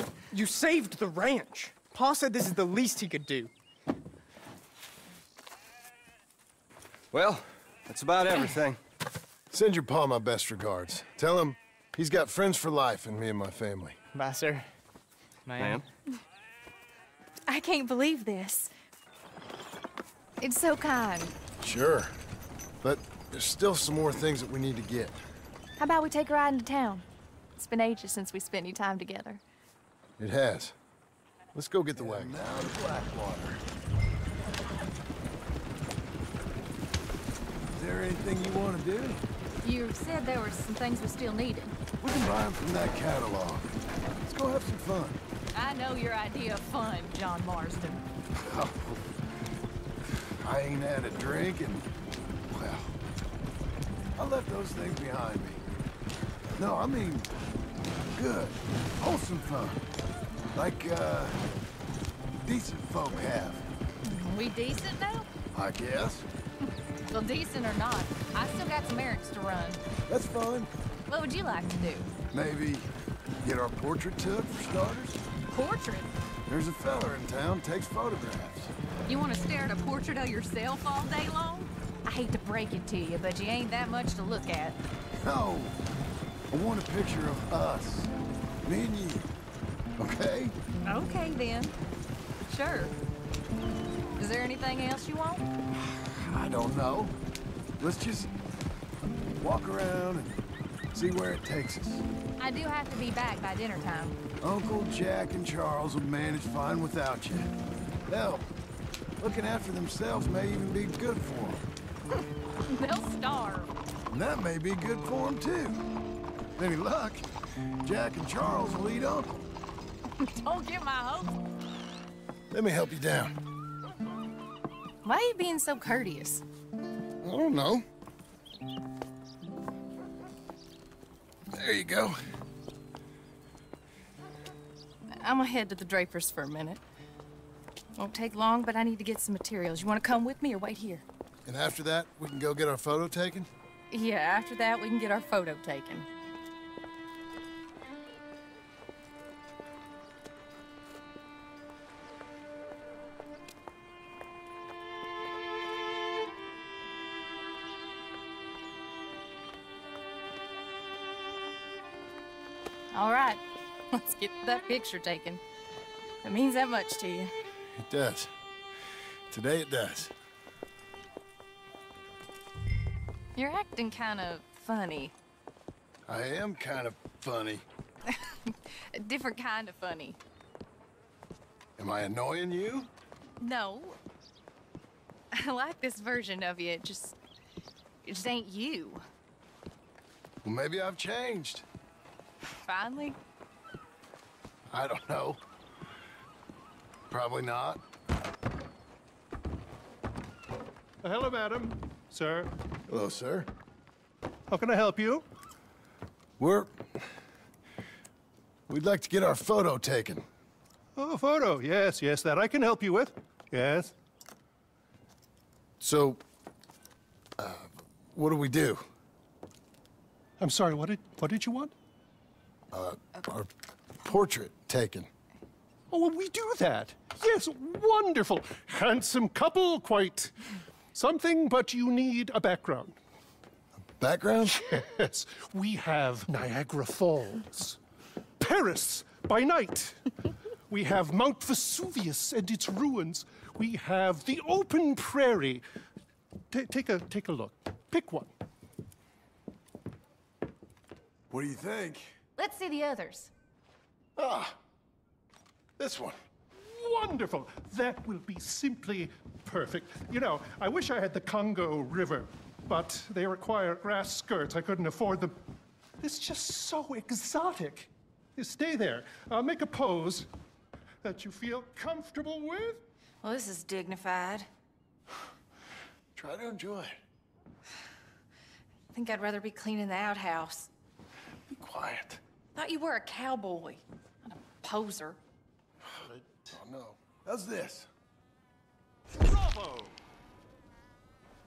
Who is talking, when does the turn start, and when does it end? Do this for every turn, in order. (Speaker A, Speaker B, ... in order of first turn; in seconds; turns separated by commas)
Speaker A: 0.3-3.5, Speaker B: 7.1-8.8, Speaker C: 9.5-14.0, Speaker A: 14.1-14.7, Speaker A: 15.5-15.8, Speaker D: 17.5-18.7, Speaker D: 20.4-21.3, Speaker C: 21.6-22.1, Speaker C: 22.8-25.2, Speaker D: 25.8-27.1, Speaker D: 27.6-29.4, Speaker C: 30.2-30.8, Speaker C: 31.6-33.6, Speaker C: 37.8-39.2, Speaker D: 39.6-41.8, Speaker C: 42.0-45.2, Speaker D: 45.5-48.0, Speaker C: 48.4-49.0, Speaker C: 50.4-51.9, Speaker C: 52.5-52.9, Speaker C: 54.2-55.6, Speaker C: 56.6-57.3, Speaker C: 58.1-59.8, Speaker C: 60.5-61.4, Speaker C: 62.4-63.6, Speaker D: 64.0-65.3, Speaker C: 65.5-66.3, Speaker D: 67.1-69.8, Speaker C: 70.1-70.7, Speaker D: 71.1-72.1, Speaker C: 72.3-72.9, Speaker C: 73.4-75.2, Speaker D: 75.5-76.1, Speaker C: 76.5-78.7, Speaker D: 79.1-84.8, Speaker C: 85.2-85.8, Speaker C: 86.5-88.1, Speaker C: 88.7-89.3, Speaker C: 90.0-90.5, Speaker D: 90.9-91.8, Speaker D: 92.5-93.0, Speaker D: 94.2-95.5, Speaker C: 95.9-97.2, Speaker C: 97.8-98.3, Speaker C: 99.4-100.4, Speaker C: 100.9-102.0, Speaker D: 102.4-104.2, Speaker C: 104.4-107.5, Speaker C: 108.1-108.5, Speaker C: 109.2-111.6, Speaker D: 112.7-113.7, Speaker C: 114.1-115.8, Speaker C: 116.6-117.2, Speaker C: 117.8-119.5, Speaker D: 120.2-121.4, Speaker C: 122.5-123.4, Speaker D: 125.0-126.4, Speaker C: 127.2-127.8, Speaker C: 131.5-132.2, Speaker D: 135.2-136.8, Speaker D: 138.0-141.0, Speaker C: 141.4-143.5, Speaker D: 143.9-146.1, Speaker D: 162.9-163.4, Speaker D: 163.9-165.4, Speaker D: 166.2-167.3, Speaker C: 167.8-168.3, Speaker C: 169.3-170.1, Speaker D: 173.4-175.1, Speaker C: 176.1-177.7, Speaker D: 178.1-180.2, Speaker C: 181.8-182.9, Speaker D: 183.4-184.0, Speaker D: 185.3-187.2, Speaker D: 188.1-189.0, Speaker C: 190.4-191.7, Speaker D: 192.7-193.2, Speaker C: 194.7-195.4, Speaker C: 197.1-197.8, Speaker E: 201.0-202.5, Speaker C: 202.9-203.5, Speaker E: 204.5-205.2, Speaker C: 206.4-206.8, Speaker C: 208.7-210.2, Speaker E: 211.0-213.9, Speaker C: 215.8-216.2, Speaker C: 217.4-218.8, Speaker E: 220.4-221.7, Speaker C: 222.7-223.5, Speaker C: 224.0-225.1, Speaker E: 225.9-230.4, Speaker E: 230.9-232.9, Speaker C: 234.0-234.9, Speaker E: 234.9-237.8, Speaker E: 238.4-240.0, Speaker E: 240.7-245.6, Speaker E: 246.5-248.3, Speaker C: 251.3-252.1, Speaker D: 252.4-253.3, Speaker C: 254.2-254.6, Speaker C: 255.8-256.2, Speaker E: 256.6-265.4, Speaker E: 266.0-270.3, Speaker E: 271.0-272.8, Speaker D: 273.2-274.5, Speaker C: 276.2-277.0, Speaker D: 278.9-280.7, Speaker C: 281.5-282.2, Speaker D: 282.6-285.2, Speaker C: 286.5-287.9, Speaker B: 289.3-289.8